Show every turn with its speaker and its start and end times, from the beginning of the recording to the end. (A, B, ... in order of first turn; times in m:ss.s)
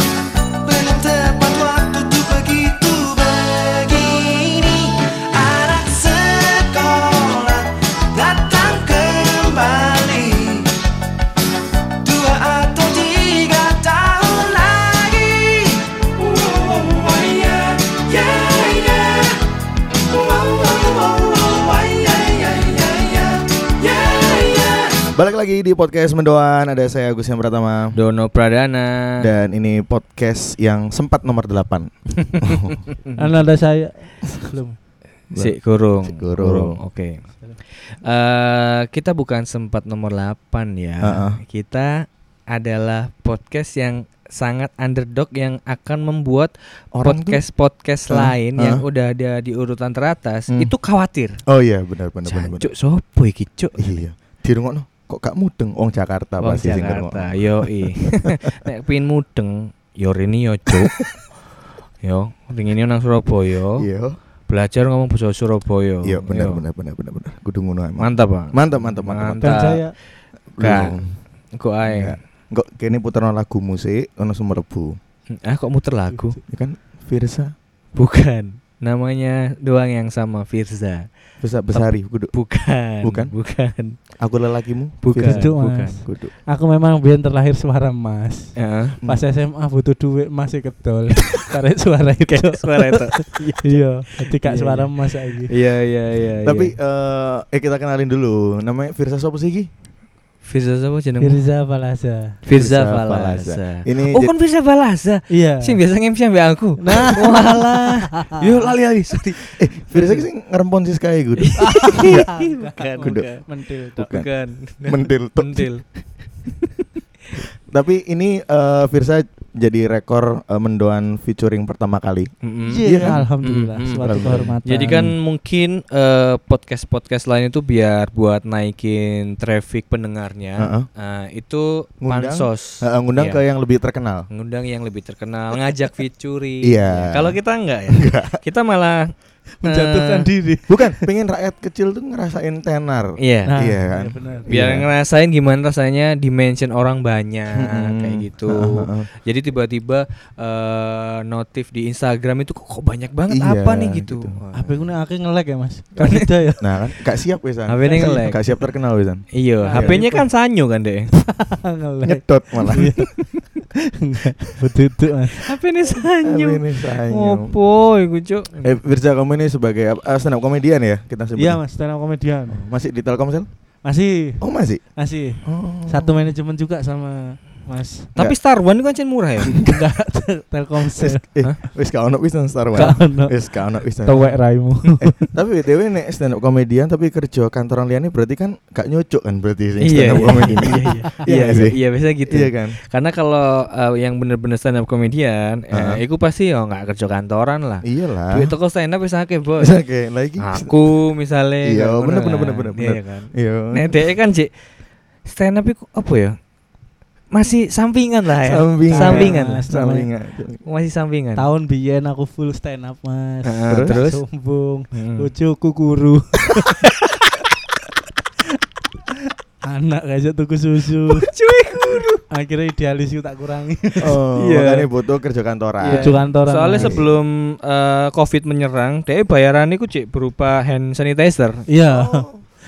0:00.6-0:10.8 A
0:12.0-0:25.1 A
0:25.1-0:28.0 B
0:27.9-0:29.3 C
0:29.2-0:32.8 B
0:32.2-0:33.2 C
0:33.2-0:34.8 D
0:35.3-0:36.8 B
0:35.3-0:37.2 C
0:37.7-0:51.4 C
0:41.0-0:41.4 B
0:46.9-0:47.4 B
0:48.1-0:48.8 B
0:51.5-0:52.7 B
0:52.2-0:54.0 C
0:53.8-0:58.3 B
0:56.4-1:01.0 C
1:02.0-1:03.9 C
1:03.8-1:04.2 B
1:04.5-1:06.6 C
1:06.0-1:09.6 B
1:08.0-1:09.9 C
1:09.4-1:09.9 D
1:10.6-1:11.2 B
1:10.6-1:11.0 C
1:11.5-1:12.2 C
1:11.9-1:15.0 B
1:15.3-1:16.4 C
1:16.5-1:17.5 B
1:17.9-1:21.1 C
1:21.4-1:22.3 B
1:21.7-1:24.0 C
1:23.0-1:23.3 B
1:24.2-1:26.3 B
1:25.0-1:26.0 C
1:25.2-1:33.1 D
1:28.6-1:29.0 C
1:32.2-1:36.7 C
1:33.6-1:35.5 D
1:36.4-1:39.7 B
1:40.4-1:41.4 C
1:41.2-1:42.4 D
1:42.4-1:50.2 C
1:42.5-1:44.3 B
1:45.3-1:45.8 D
1:46.8-1:48.3 D
1:49.6-1:52.3 B
1:51.4-1:53.4 C
1:51.6-1:54.2 D
1:54.0-1:54.3 B
1:54.0-1:55.8 C
1:54.8-1:55.7 B
1:57.7-2:02.3 B
2:02.4-2:13.4 C
2:02.6-2:05.1 D
2:02.8-2:03.2 B
2:04.0-2:05.1 B
2:10.6-2:10.9 B
2:12.0-2:14.3 B
2:14.3-2:19.1 C
2:16.6-2:17.4 B
2:17.9-2:18.4 B
2:19.6-2:21.0 D
2:19.6-2:20.3 C
2:20.7-2:24.9 B
2:23.2-2:23.6 C
2:23.5-2:24.5 D
2:24.5-2:34.7 C
2:27.5-2:29.1 B
2:33.3-2:34.4 B
2:34.5-2:36.6 D
2:36.0-2:36.3 C
2:36.6-2:40.0 B
2:37.7-2:38.4 C
2:37.9-2:38.3 D
2:39.3-2:41.1 C
2:39.6-2:40.2 D
2:41.2-2:43.1 D
2:42.0-2:43.0 B
2:43.7-2:45.5 D
2:45.3-2:48.7 C
2:46.2-2:47.5 B
2:48.6-2:51.6 B
2:51.4-2:52.6 D
2:52.5-2:53.5 B
2:53.8-2:54.4 D
2:54.4-2:54.8 B
2:55.0-2:58.1 D
2:55.4-2:56.2 B
2:58.2-2:59.6 C
2:59.4-2:59.8 B
2:59.6-3:01.2 D
3:01.0-3:04.2 B
3:02.8-3:03.4 D
3:04.0-3:05.3 D
3:05.0-3:12.8 B
3:09.8-3:19.8 C
3:15.7-3:16.0 B
3:17.8-3:18.5 B
3:19.6-3:20.7 B
3:20.4-3:24.5 C
3:21.6-3:23.9 B
3:25.2-3:26.3 C
3:27.3-3:29.6 C
3:28.4-3:30.6 B
3:28.9-3:30.1 D
3:30.6-3:31.5 C
3:31.4-3:36.8 D
3:33.4-3:34.2 C
3:33.7-3:33.9 B
3:34.9-3:35.3 C
3:39.1-3:41.3 D
3:41.1-3:42.2 C
3:42.3-3:44.2 D
3:44.0-3:46.2 B
3:44.3-3:44.9 C
3:45.8-3:51.6 C
3:45.9-3:47.0 D
3:46.7-3:47.1 B
3:51.7-3:52.3 D
3:51.8-3:52.4 B